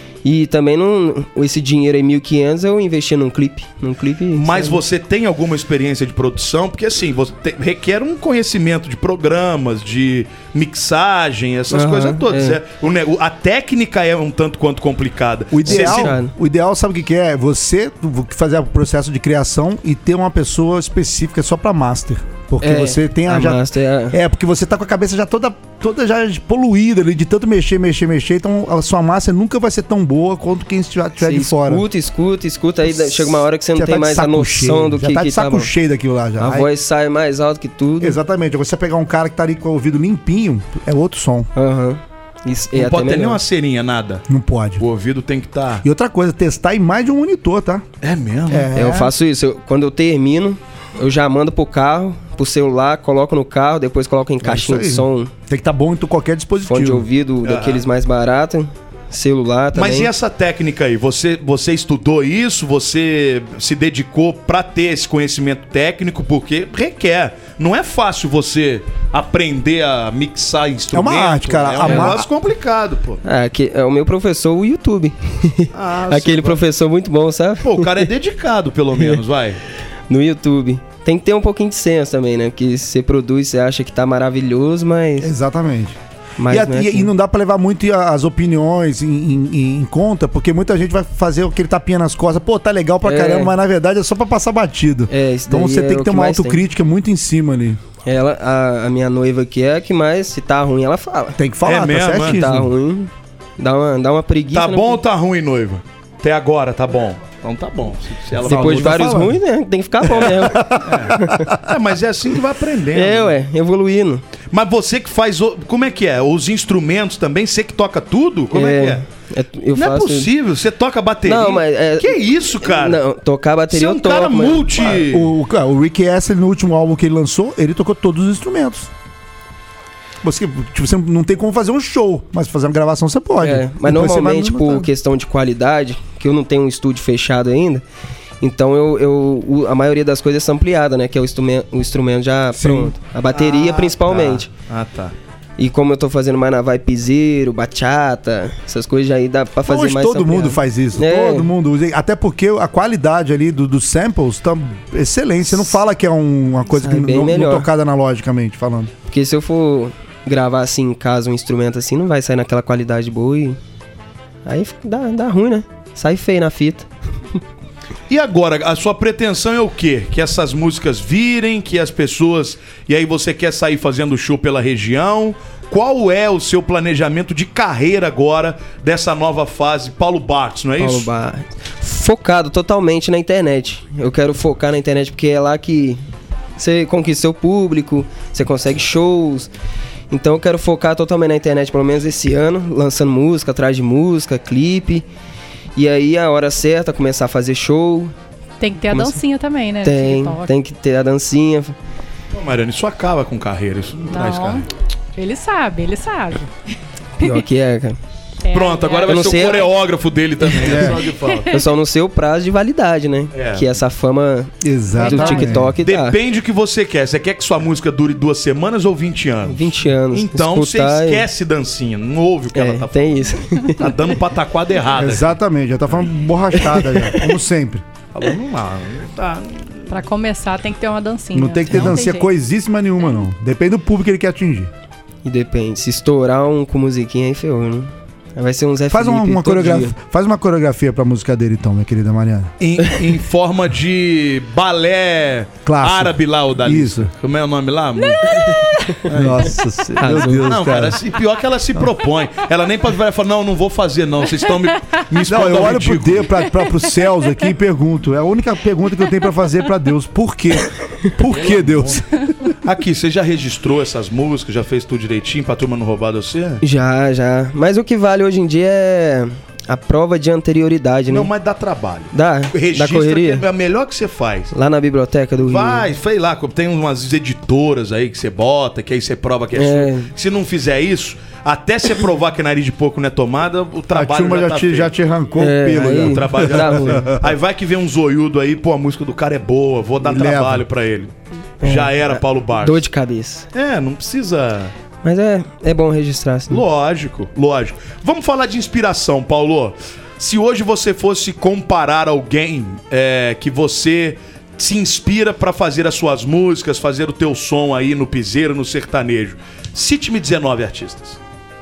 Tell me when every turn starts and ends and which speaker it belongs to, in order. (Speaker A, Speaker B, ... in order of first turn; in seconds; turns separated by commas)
Speaker A: 0.2-4.8, Speaker B: 4.3-16.1, Speaker A: 11.7-12.6, Speaker C: 15.5-31.9, Speaker A: 15.7-16.3, Speaker A: 22.6-24.2, Speaker A: 31.2-35.7, Speaker C: 32.9-36.7, Speaker A: 36.4-38.2, Speaker C: 38.0-41.5, Speaker A: 41.6-43.4, Speaker B: 42.7-44.2, Speaker C: 44.3-44.8, Speaker B: 44.8-45.8, Speaker C: 45.8-47.8, Speaker B: 48.0-48.7, Speaker C: 48.5-49.1, Speaker A: 48.8-55.3, Speaker C: 54.4-57.1, Speaker A: 56.7-60.1, Speaker B: 57.4-57.9, Speaker B: 59.7-73.2, Speaker C: 70.9-72.3, Speaker A: 71.8-72.2, Speaker A: 73.2-78.1, Speaker B: 75.7-76.6, Speaker B: 77.6-79.6, Speaker A: 80.1-85.3, Speaker C: 85.2-86.0, Speaker A: 86.4-87.1, Speaker C: 86.5-97.8, Speaker A: 93.0-93.5, Speaker A: 95.1-96.6, Speaker A: 98.0-101.4, Speaker C: 101.4-102.7, Speaker B: 101.7-102.4, Speaker A: 102.2-105.0, Speaker B: 104.5-109.0, Speaker C: 108.4-109.4, Speaker A: 108.5-111.5, Speaker C: 110.1-111.7, Speaker B: 110.2-113.4, Speaker A: 112.9-114.2, Speaker B: 114.5-119.0, Speaker A: 118.5-120.3, Speaker B: 119.7-123.0, Speaker A: 121.3-125.0, Speaker B: 123.7-125.3, Speaker C: 125.0-128.9, Speaker C: 130.2-134.9, Speaker A: 133.4-137.8, Speaker A: 138.4-144.5, Speaker C: 142.6-142.9, Speaker B: 143.3-145.1, Speaker A: 145.6-151.5, Speaker C: 149.7-158.9, Speaker A: 156.7-157.7, Speaker A: 159.1-163.6, Speaker A: 164.4-166.9, Speaker B: 168.1-181.1, Speaker A: 180.8-186.0, Speaker A: 186.6-189.5, Speaker A: 190.1-195.1, Speaker A: 195.8-198.1, Speaker D: 198.6-200.5, Speaker A: 198.9-199.2, Speaker A: 199.8-201.8, Speaker B: 202.3-204.6, Speaker D: 204.1-206.5, Speaker A: 207.2-208.0, Speaker D: 208.4-209.7, Speaker B: 208.5-211.6, Speaker A: 209.1-209.7, Speaker C: 210.6-211.0, Speaker D: 211.3-211.6, Speaker A: 211.5-216.2, Speaker B: 213.3-213.7, Speaker C: 214.6-215.7, Speaker D: 215.0-215.6, Speaker B: 215.8-225.4, Speaker A: 219.5-221.2, Speaker A: 222.6-223.9, Speaker C: 224.9-227.8, Speaker A: 226.5-227.3, Speaker B: 228.1-229.9, Speaker D: 229.9-232.3, Speaker C: 231.3-234.7, Speaker A: 235.2-239.9, Speaker C: 238.9-242.5, Speaker B: 242.6-248.4, Speaker C: 245.7-247.1, Speaker B: 249.1-249.5, Speaker C: 249.1-251.0, Speaker A: 250.0-250.5, Speaker B: 250.1-256.3, Speaker C: 255.2-262.5, Speaker B: 261.3-262.0, Speaker B: 262.6-266.6, Speaker A: 266.6-271.3, Speaker B: 271.1-274.5, Speaker A: 272.1-273.4, Speaker A: 274.5-275.9, Speaker B: 275.4-284.9, Speaker A: 279.6-280.1, Speaker C: 283.9-287.3, Speaker A: 285.4-287.1, Speaker B: 286.0-292.8, Speaker C: 290.0-290.6, Speaker A: 291.6-293.5, Speaker B: 293.5-294.7, Speaker A: 295.0-296.6, Speaker B: 296.5-311.2